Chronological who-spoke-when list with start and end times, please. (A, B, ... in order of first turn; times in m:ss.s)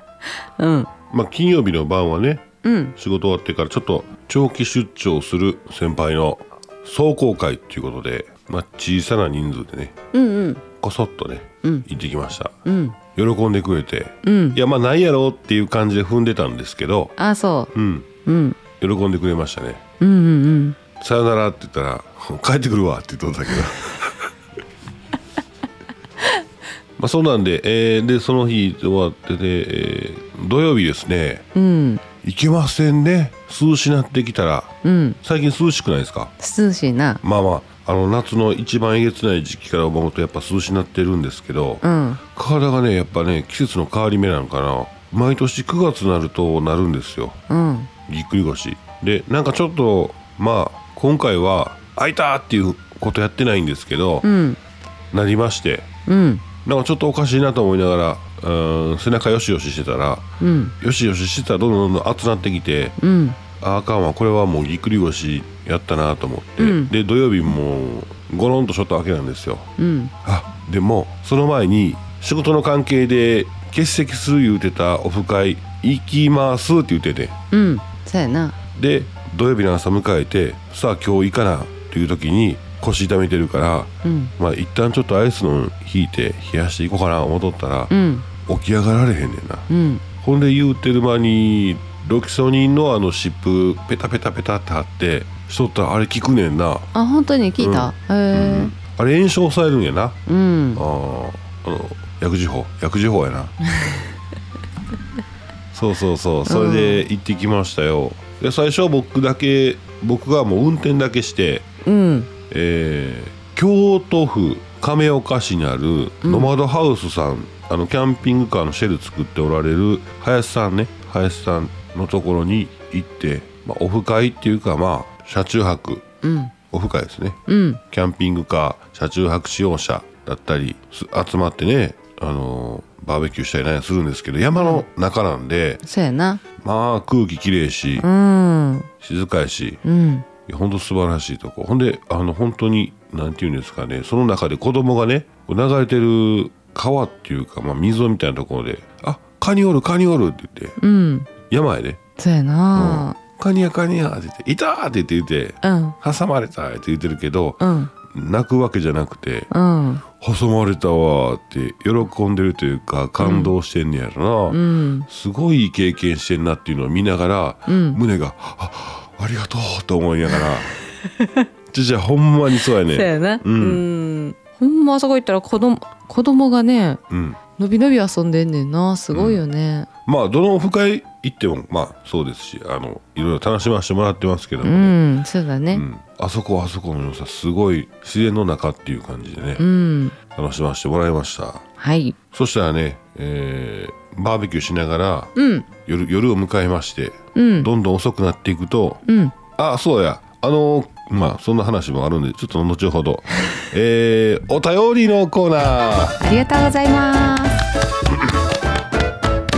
0:00.4-0:00.9 A
0:01.1-0:09.9 B
0:02.6-0:02.9 A
0:10.1-0:10.6 A
0:10.8-0:12.6 B
0:12.6-0:13.0 A
0:13.1-0:17.1 B
0:14.2-0:14.6 A
0:17.2-0:17.7 A
0:17.7-0:18.1 B
0:18.2-0:18.6 A
0:18.8-0:19.8 B
0:20.0-0:20.8 A
0:21.0-0:24.3 B
0:27.0-0:31.4 B
0:31.5-0:32.0 A
0:32.2-0:36.3 B
0:34.8-0:35.2 A
0:36.4-0:37.2 A
0:37.2-0:47.4 B
0:41.8-0:42.2 A
0:47.5-0:47.9 A
0:48.1-0:54.3 B
0:54.2-0:54.6 A
0:55.1-0:55.9 B
0:56.0-0:56.4 A
0:56.6-1:00.3 B
1:00.4-1:00.7 A
1:00.8-1:03.0 B
1:03.0-1:03.4 A
1:03.6-1:09.7 B
1:06.6-1:06.9 A
1:09.8-1:10.1 A
1:10.2-1:17.4 B
1:17.5-1:18.6 A
1:18.7-1:27.9 B
1:24.0-1:24.3 A
1:27.9-1:28.3 A
1:28.4-1:29.7 B
1:29.7-1:30.0 A
1:30.2-1:36.9 B
1:36.9-1:38.7 A
1:37.6-1:40.2 B
1:40.3-1:40.8 A
1:40.8-1:43.5 B
1:45.7-1:51.7 B
1:46.4-1:47.0 A
1:51.8-1:52.3 A
1:52.5-2:06.1 B
1:56.2-1:56.5 A
2:06.2-2:06.5 A
2:06.7-2:07.4 B
2:07.5-2:07.8 A
2:07.9-2:15.8 B
2:14.5-2:14.8 A
2:15.8-2:16.4 A
2:16.6-2:18.1 B
2:18.0-2:18.9 A
2:19.0-2:19.8 B
2:19.8-2:20.3 A
2:20.4-2:30.8 B
2:30.8-2:31.3 A
2:31.5-2:32.0 B
2:32.2-2:33.2 A
2:32.7-2:39.5 B
2:35.6-2:36.0 A
2:37.6-2:37.9 A
2:39.5-2:40.0 A
2:40.1-2:50.7 B
2:43.2-2:43.5 A
2:44.5-2:45.1 A
2:47.7-2:48.0 A
2:51.0-2:51.5 A
2:51.7-2:53.8 B
2:52.7-2:57.0 A
2:57.1-2:57.4 B
2:57.6-2:59.9 A
2:59.1-2:59.4 B
3:00.0-3:05.0 B
3:04.6-3:05.8 A
3:05.7-3:09.6 B
3:09.6-3:10.2 A
3:10.3-3:11.6 B
3:11.8-3:12.2 A
3:12.3-3:19.0 B
3:15.4-3:15.7 A
3:17.3-3:17.7 A
3:19.0-3:19.3 A
3:19.6-3:26.2 B
3:26.2-3:27.6 A